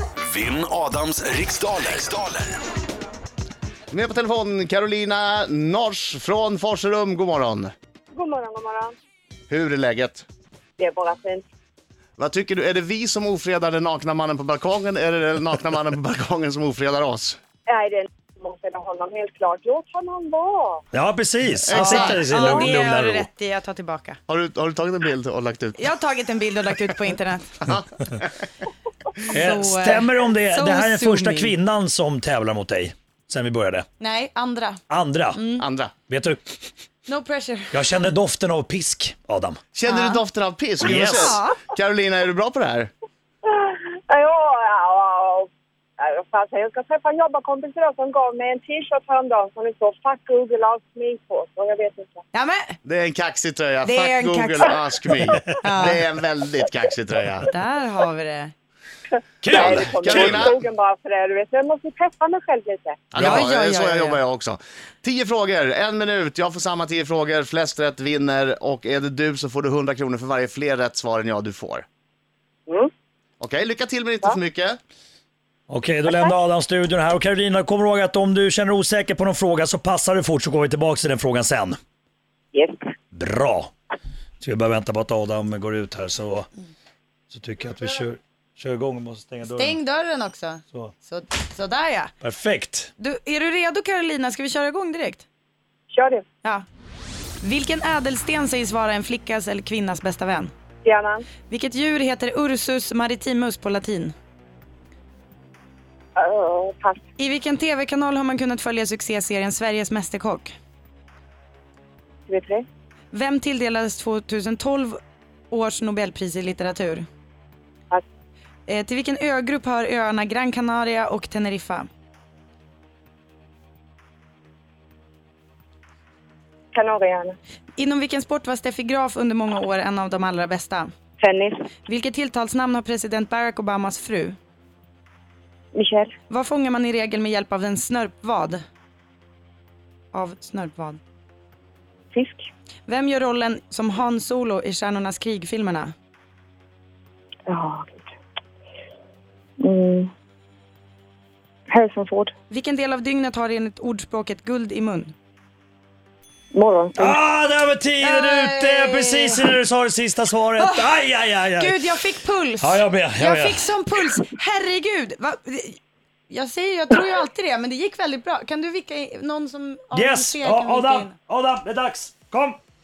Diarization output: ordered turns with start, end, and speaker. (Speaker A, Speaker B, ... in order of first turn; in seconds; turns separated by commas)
Speaker A: 0.2-2.5, Speaker B: 3.9-7.7, Speaker C: 8.1-8.9, Speaker B: 9.5-10.2, Speaker C: 10.8-11.4, Speaker B: 12.2-17.4, Speaker C: 17.7-20.8, Speaker D: 20.9-23.3, Speaker B: 21.7-22.2, Speaker E: 21.7-24.2, Speaker C: 22.3-22.7, Speaker B: 24.3-25.9, Speaker E: 25.8-27.6, Speaker B: 27.7-28.5, Speaker E: 29.3-31.5, Speaker D: 29.3-33.9, Speaker E: 34.0-34.8, Speaker D: 34.9-35.4, Speaker E: 35.3-35.6, Speaker B: 35.6-35.9, Speaker D: 36.1-36.4, Speaker E: 37.1-38.0, Speaker D: 37.7-39.6, Speaker B: 39.7-42.9, Speaker E: 39.9-40.2, Speaker D: 40.8-41.3, Speaker E: 40.9-41.6, Speaker C: 43.5-45.5, Speaker C: 46.0-52.2, Speaker E: 52.3-52.8, Speaker B: 52.8-57.5, Speaker E: 53.8-54.7, Speaker E: 55.6-56.0, Speaker E: 57.5-58.5, Speaker D: 59.4-60.5, Speaker C: 59.5-63.0, Speaker B: 59.9-60.5, Speaker B: 63.1-71.9, Speaker E: 63.2-64.2, Speaker B: 73.4-74.8, Speaker D: 75.7-81.8, Speaker C: 82.5-82.8, Speaker D: 83.1-83.7, Speaker D: 84.4-86.5, Speaker D: 87.3-89.8, Speaker E: 89.4-92.1, Speaker D: 92.2-92.9, Speaker E: 93.0-95.2, Speaker C: 95.9-96.2, Speaker E: 97.4-100.5, Speaker C: 100.8-101.3, Speaker E: 101.5-104.1, Speaker C: 106.2-107.0, Speaker E: 107.2-110.5, Speaker C: 112.3-112.7, Speaker E: 113.1-115.0, Speaker E: 115.5-117.0, Speaker E: 118.7-121.9, Speaker C: 126.7-127.4, Speaker E: 127.8-130.9, Speaker C: 131.2-131.7, Speaker E: 131.8-134.4, Speaker C: 135.7-136.1, Speaker E: 136.3-138.6, Speaker E: 140.1-141.0, Speaker C: 142.1-142.5, Speaker E: 142.9-145.9, Speaker C: 147.5-148.1, Speaker C: 149.6-150.1, Speaker C: 151.7-152.3, Speaker E: 152.5-155.1, Speaker C: 156.5-157.2, Speaker D: 157.0-161.8, Speaker E: 158.0-159.5, Speaker E: 160.6-161.0, Speaker E: 161.6-171.2, Speaker D: 162.6-163.7, Speaker D: 169.9-172.6